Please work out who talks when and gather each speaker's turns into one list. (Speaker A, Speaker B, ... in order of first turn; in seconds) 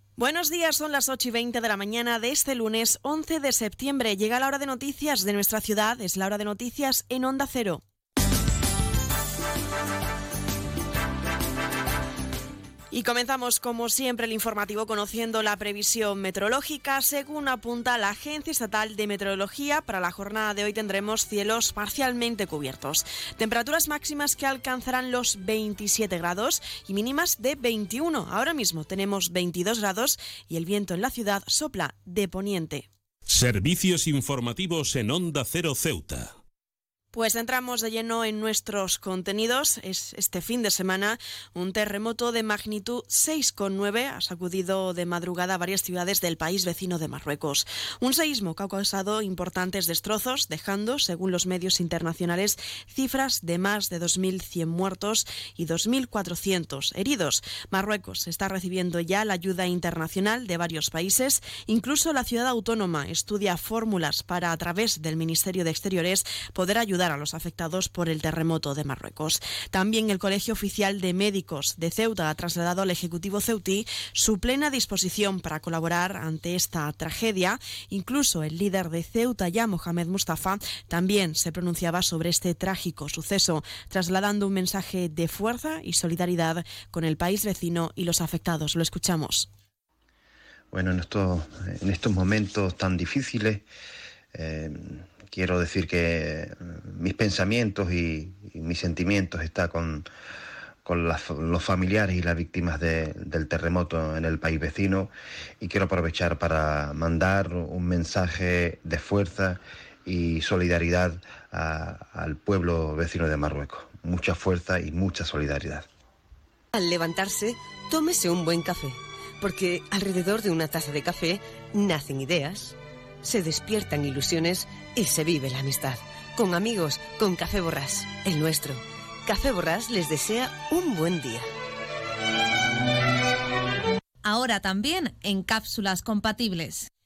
Speaker A: 0.2-7.8, 12.9-32.9, 37.1-89.5
Speaker B: 33.4-36.2
Speaker C: 90.7-93.6, 94.3-100.1, 100.8-115.8
Speaker D: 116.7-131.5
Speaker E: 134.2-136.9